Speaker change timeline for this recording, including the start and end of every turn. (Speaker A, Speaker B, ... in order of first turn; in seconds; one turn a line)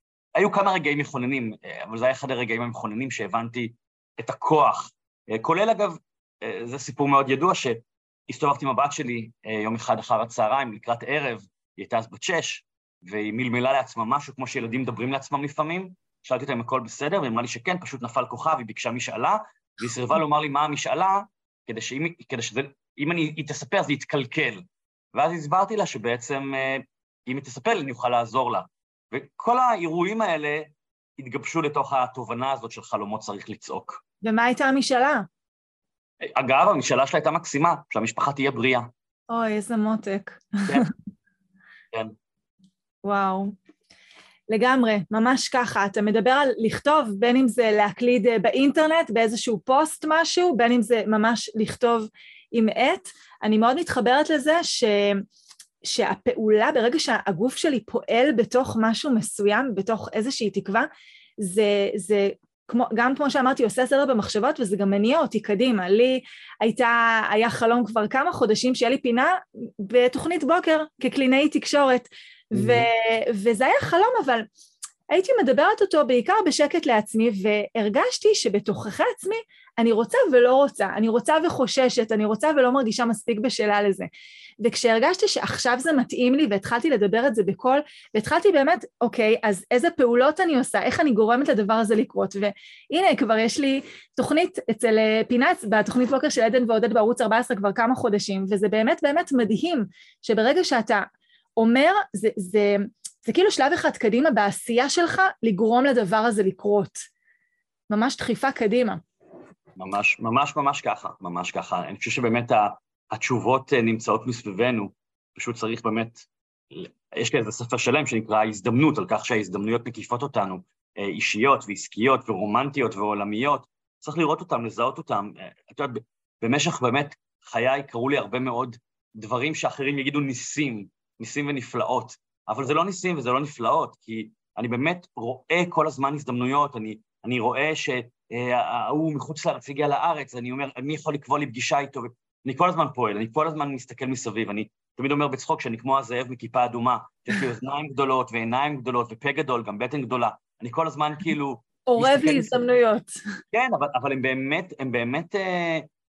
Speaker A: 0.4-24.6
Speaker A: 25.1-34.0
Speaker B: 34.2-35.3
Speaker A: 36.2-38.9
Speaker B: 39.3-40.9
Speaker B: 43.0-43.5
Speaker B: 44.5-55.2
Speaker B: 55.8-60.9
Speaker B: 61.4-74.5
Speaker A: 72.5-72.9
Speaker B: 75.1-84.1
Speaker B: 84.6-101.0
Speaker B: 101.6-107.0
Speaker B: 107.9-109.0
Speaker A: 109.8-152.7
Speaker B: 151.9-153.2
Speaker A: 153.5-155.9